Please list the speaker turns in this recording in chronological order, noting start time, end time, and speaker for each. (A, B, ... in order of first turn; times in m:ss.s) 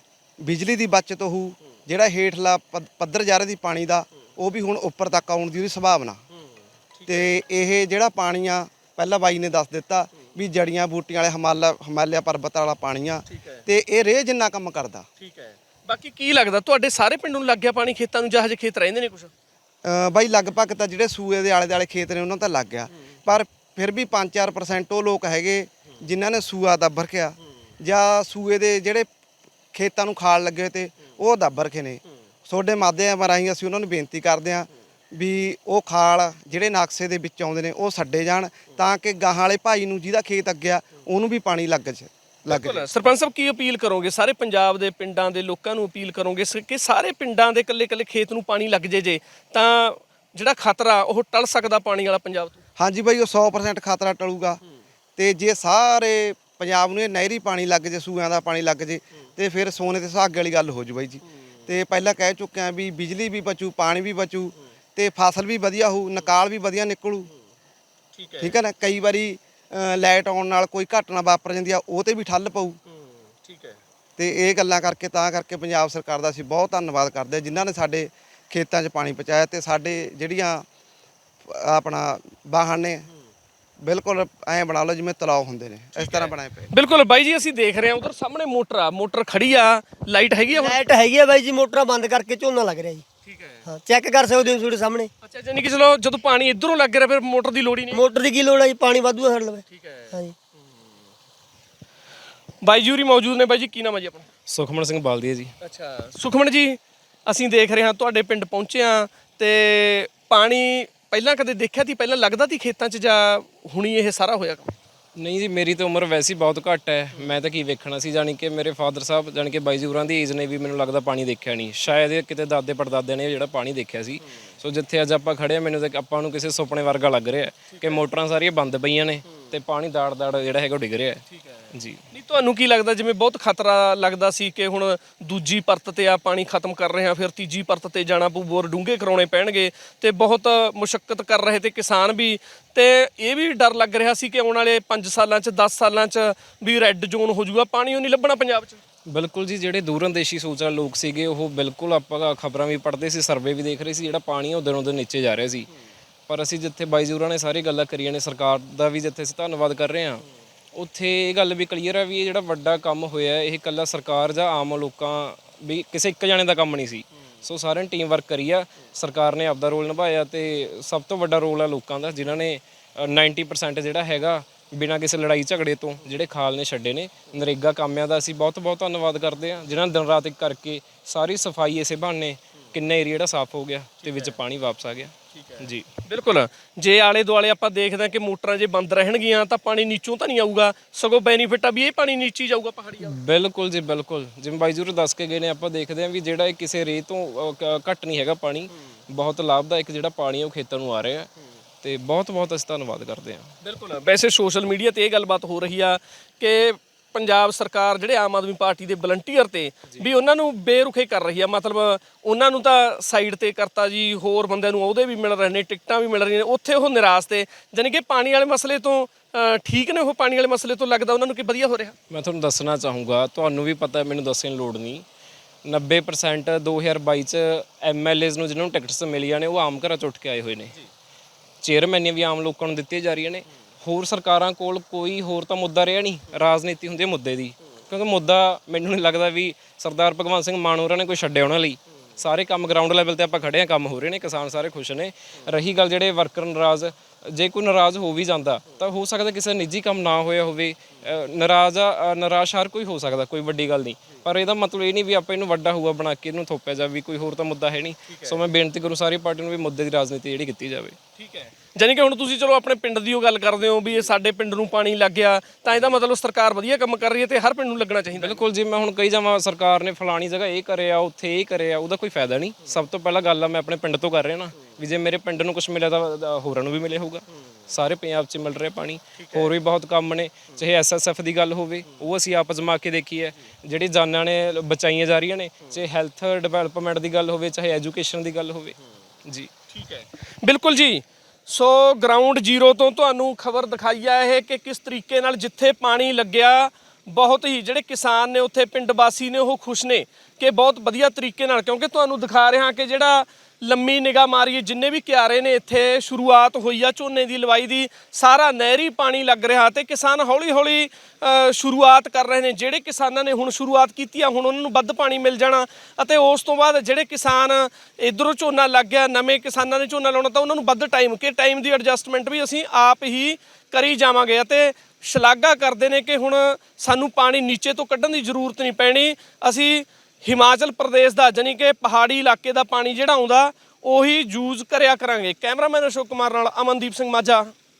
0:00.4-0:06.2 A
0:07.0-0:07.4 B
0:07.1-0:15.1 A
0:13.3-0:13.6 B
0:15.2-0:19.3 B
0:19.8-0:29.1 A
0:29.7-0:42.8 A
0:42.5-0:52.6 B
0:52.8-0:54.6 A
0:55.2-1:07.3 A
1:08.2-1:08.6 B
1:08.4-1:12.8 A
1:12.9-1:13.8 B
1:14.2-1:20.6 A
1:21.5-1:23.1 A
1:23.8-1:26.7 A
1:26.0-1:30.8 B
1:30.5-1:33.0 C
1:33.2-1:33.6 B
1:33.7-1:35.1 C
1:35.2-1:38.0 B
1:37.9-1:40.3 C
1:39.7-1:40.2 B
1:42.6-1:44.3 B
1:44.5-1:45.5 D
1:45.6-1:54.7 B
1:55.2-2:12.0 D
2:07.7-2:08.0 B
2:11.3-2:28.8 B
2:29.1-2:35.7 D
2:36.3-3:05.9 D
3:04.0-3:04.4 B
3:05.3-3:13.2 B
3:13.0-3:21.3 D
3:21.8-3:23.5 D
3:23.6-3:41.9 B
3:42.1-3:45.0 D
3:45.6-3:50.7 D
3:51.6-4:21.0 D
4:18.1-4:18.4 B
4:21.2-4:28.4 B
4:28.2-4:49.5 D
4:39.2-4:39.5 B
4:49.7-5:37.5 B